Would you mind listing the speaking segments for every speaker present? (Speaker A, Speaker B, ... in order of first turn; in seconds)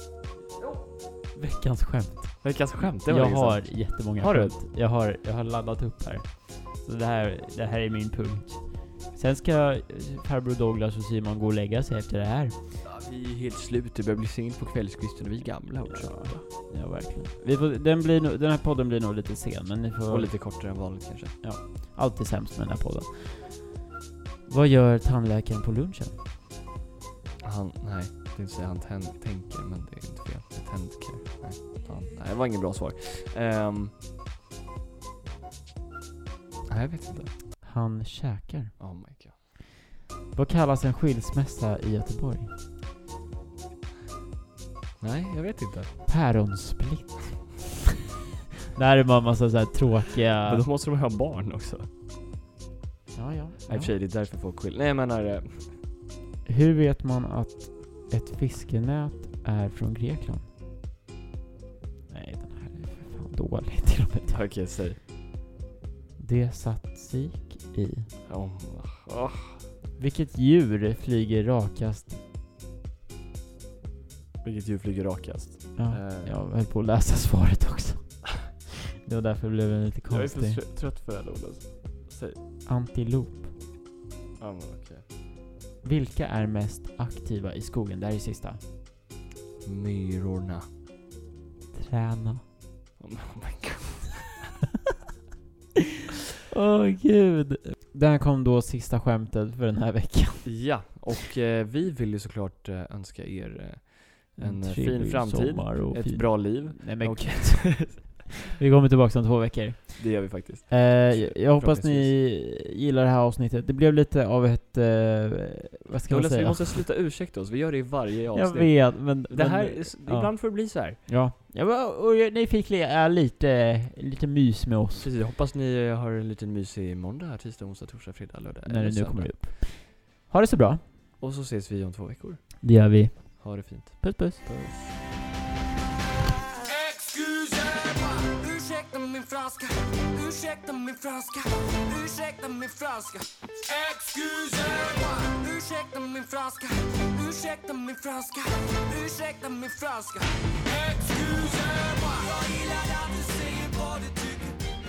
Speaker A: 1.3-12.6, 15.8-20.4, 21.4-23.7, 24.5-26.2, 37.6-39.0, 40.3-42.5, 46.1-47.6, 48.7-50.7, 53.1-53.9, 56.5-60.5, 62.1-64.4, 66.2-68.1, 70.0-72.2, 75.8-80.6, 82.7-83.5, 85.8-88.6, 91.7-92.4, 96.5-100.6, 104.4-116.8, 118.3-125.1, 128.7-130.8, 132.6-134.4
Speaker B: 2.4-4.6, 12.8-16.4, 20.1-21.4, 27.4-34.0, 36.7-37.3, 38.8-39.4, 45.0-46.0, 50.5-51.9, 53.6-55.8, 64.3-65.0, 68.3-69.6, 74.4-76.4, 80.1-82.4, 84.4-85.1, 89.6-90.7, 93.0-94.5, 100.4-108.2, 110.0-112.1, 116.1-121.0, 125.0-129.4, 131.2-134.9
Speaker C: 136.6-154.6